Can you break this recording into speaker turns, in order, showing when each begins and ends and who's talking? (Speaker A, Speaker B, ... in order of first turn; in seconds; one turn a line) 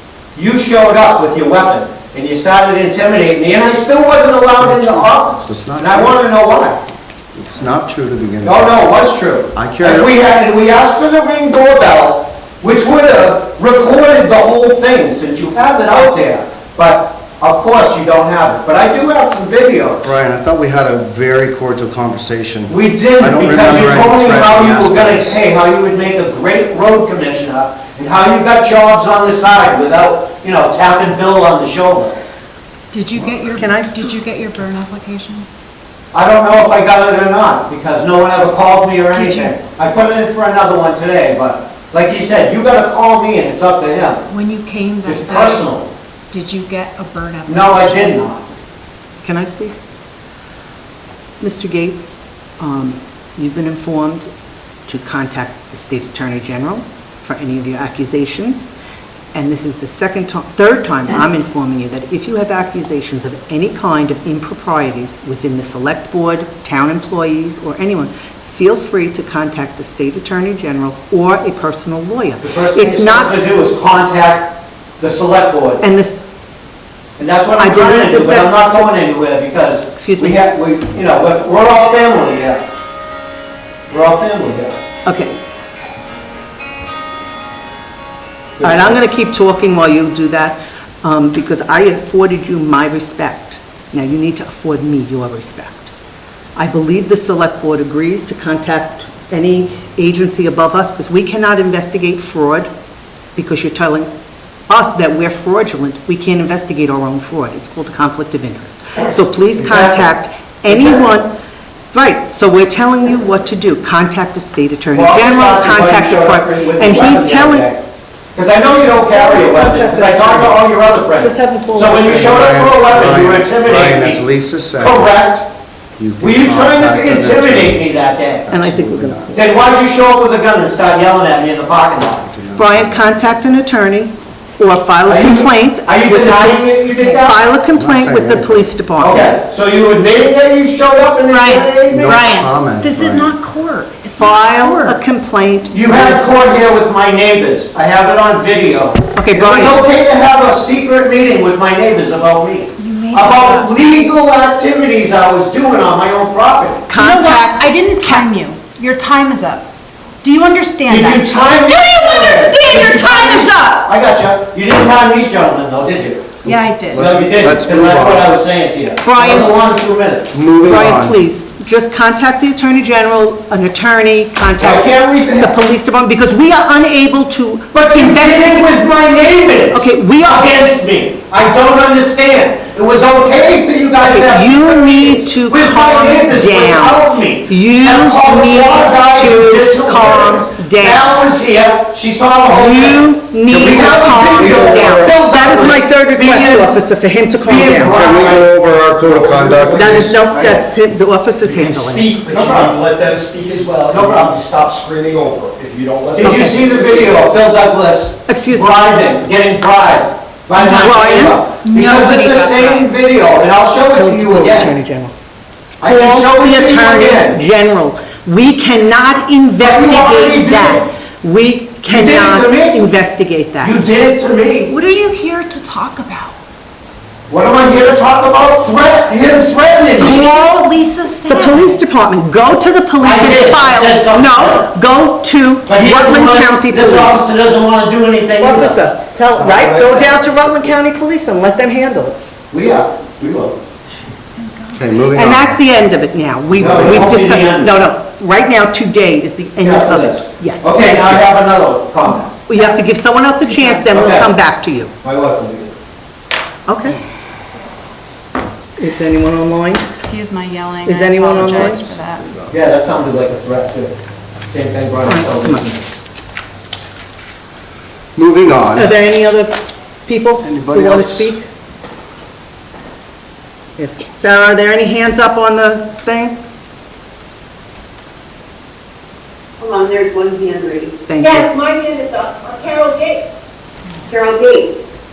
Speaker A: 0.3-6.8
Speaker B: 4.5-6.2
Speaker B: 7.3-8.8
Speaker A: 8.4-20.1
Speaker B: 9.5-10.1
Speaker B: 20.0-25.3
Speaker A: 22.7-32.2
Speaker C: 32.9-35.5
Speaker D: 33.5-34.1
Speaker A: 36.1-44.2
Speaker C: 39.1-39.5
Speaker C: 44.3-45.7
Speaker A: 45.0-45.9
Speaker C: 46.3-48.2
Speaker A: 47.5-48.5
Speaker D: 49.2-49.7
Speaker D: 51.4-54.3
Speaker D: 54.9-58.7
Speaker D: 59.3-73.4
Speaker A: 72.4-75.8
Speaker D: 75.8-76.2
Speaker A: 77.2-82.6
Speaker D: 77.6-78.9
Speaker D: 79.9-80.5
Speaker A: 83.9-84.7
Speaker D: 85.0-85.4
Speaker A: 88.6-89.0
Speaker D: 88.6-95.9
Speaker D: 96.5-102.7
Speaker D: 103.3-104.1
Speaker D: 104.7-111.3
Speaker A: 109.5-110.1
Speaker A: 110.7-111.2
Speaker D: 111.9-117.7
Speaker A: 114.9-117.8
Speaker A: 118.3-124.2
Speaker D: 119.1-122.1
Speaker B: 122.0-125.1
Speaker A: 124.8-125.5
Speaker B: 126.0-127.8
Speaker A: 126.2-128.5
Speaker B: 128.5-129.3
Speaker D: 128.5-129.3
Speaker A: 129.3-132.3
Speaker B: 132.2-133.1
Speaker D: 132.5-139.3
Speaker A: 135.0-137.4
Speaker C: 137.0-137.2
Speaker B: 137.7-138.7
Speaker A: 139.0-142.4
Speaker C: 141.3-145.0
Speaker B: 141.9-143.3
Speaker D: 144.2-146.2
Speaker A: 145.7-156.8
Speaker D: 149.1-149.8
Speaker C: 152.8-154.1
Speaker D: 156.9-158.2
Speaker C: 156.9-159.7
Speaker C: 160.2-163.9
Speaker A: 160.9-166.4
Speaker D: 161.7-162.1
Speaker C: 166.4-167.1
Speaker B: 166.4-168.3
Speaker A: 166.9-170.3
Speaker D: 169.0-169.5
Speaker B: 170.3-171.2
Speaker D: 170.6-178.8
Speaker A: 174.6-175.6
Speaker A: 177.7-196.8
Speaker D: 179.7-180.5
Speaker D: 184.0-191.1
Speaker D: 192.4-198.1
Speaker B: 194.2-195.1
Speaker A: 197.4-198.5
Speaker B: 197.9-200.2
Speaker E: 198.9-200.7
Speaker D: 199.7-202.2
Speaker E: 201.4-207.2
Speaker A: 202.2-202.8
Speaker A: 203.9-204.4
Speaker A: 206.1-214.7
Speaker D: 206.2-206.6
Speaker D: 208.3-208.8
Speaker D: 210.5-211.5
Speaker C: 211.6-212.9
Speaker D: 213.9-215.1
Speaker A: 215.8-217.4
Speaker D: 215.8-223.8
Speaker A: 219.6-220.9
Speaker A: 221.8-222.9
Speaker A: 223.6-224.7
Speaker C: 224.7-226.3
Speaker A: 227.3-230.3
Speaker C: 229.9-231.8
Speaker D: 230.0-230.7
Speaker D: 231.3-237.3
Speaker A: 233.0-234.7
Speaker A: 235.7-238.8
Speaker D: 238.4-242.2
Speaker E: 239.2-240.2
Speaker A: 239.8-240.1
Speaker A: 242.5-243.6
Speaker C: 244.4-245.1
Speaker B: 244.7-245.5
Speaker D: 245.1-251.2
Speaker A: 246.5-247.8
Speaker A: 249.6-252.4
Speaker D: 252.5-254.9
Speaker C: 252.5-252.8
Speaker C: 253.4-254.0
Speaker A: 253.9-254.3
Speaker A: 255.0-255.7
Speaker D: 256.7-257.0
Speaker D: 258.8-259.9
Speaker C: 259.9-262.3
Speaker D: 260.8-261.9
Speaker A: 262.5-263.9
Speaker A: 264.5-265.9
Speaker D: 265.0-265.7
Speaker B: 268.1-268.9
Speaker D: 268.7-269.5
Speaker D: 270.1-271.5
Speaker B: 270.4-271.3
Speaker D: 273.8-276.4
Speaker F: 279.6-283.2
Speaker D: 281.0-281.5
Speaker F: 284.1-284.7